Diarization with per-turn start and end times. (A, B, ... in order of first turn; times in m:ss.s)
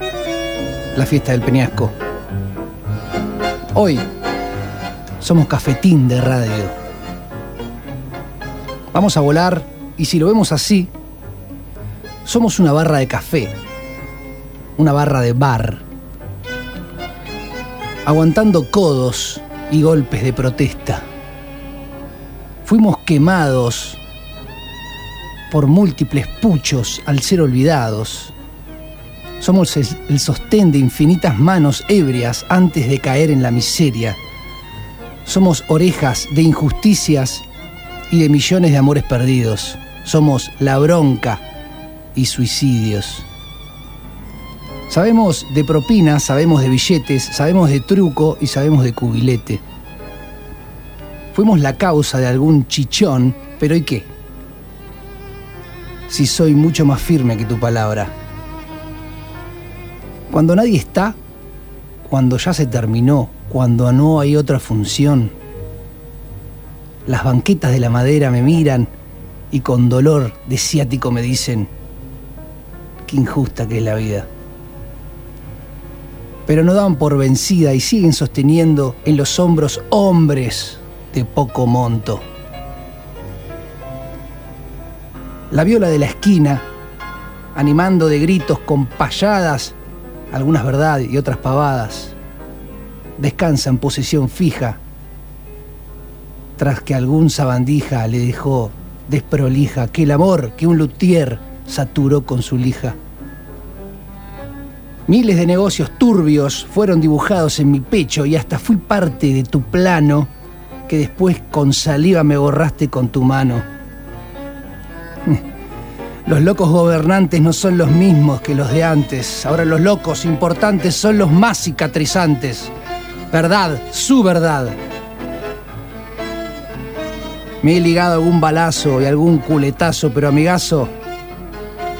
0:01.0-0:02.0 A
0:03.7-0:04.0 A
0:05.2-0:06.7 A
0:08.9-0:10.9 A
0:12.2-0:13.5 A
0:14.8-0:15.8 A
0:18.0-0:21.0 A
0:22.6-0:24.0 A
0:25.5-0:28.3 A
0:29.4-0:34.2 A
0:35.2-0:37.4 A
0:38.1-0:41.4 A
0:42.1-0:43.2 A
0:44.9-0:49.6 A
0:51.3-0:54.1 A
0:56.1-0:58.1 A
1:00.3-1:01.2 A
1:02.0-1:05.3 A
1:07.1-1:08.9 A
1:09.5-1:11.7 A
1:13.1-1:14.3 A
1:16.5-1:22.2 A
1:25.5-1:26.6 A
1:27.5-1:29.8 A
1:30.3-1:32.1 A
1:33.2-1:34.8 A
1:36.6-1:43.0 A
1:45.1-1:50.3 A
1:50.9-1:53.7 A
1:56.2-2:02.7 A
2:03.3-2:04.8 A
2:07.6-2:10.9 A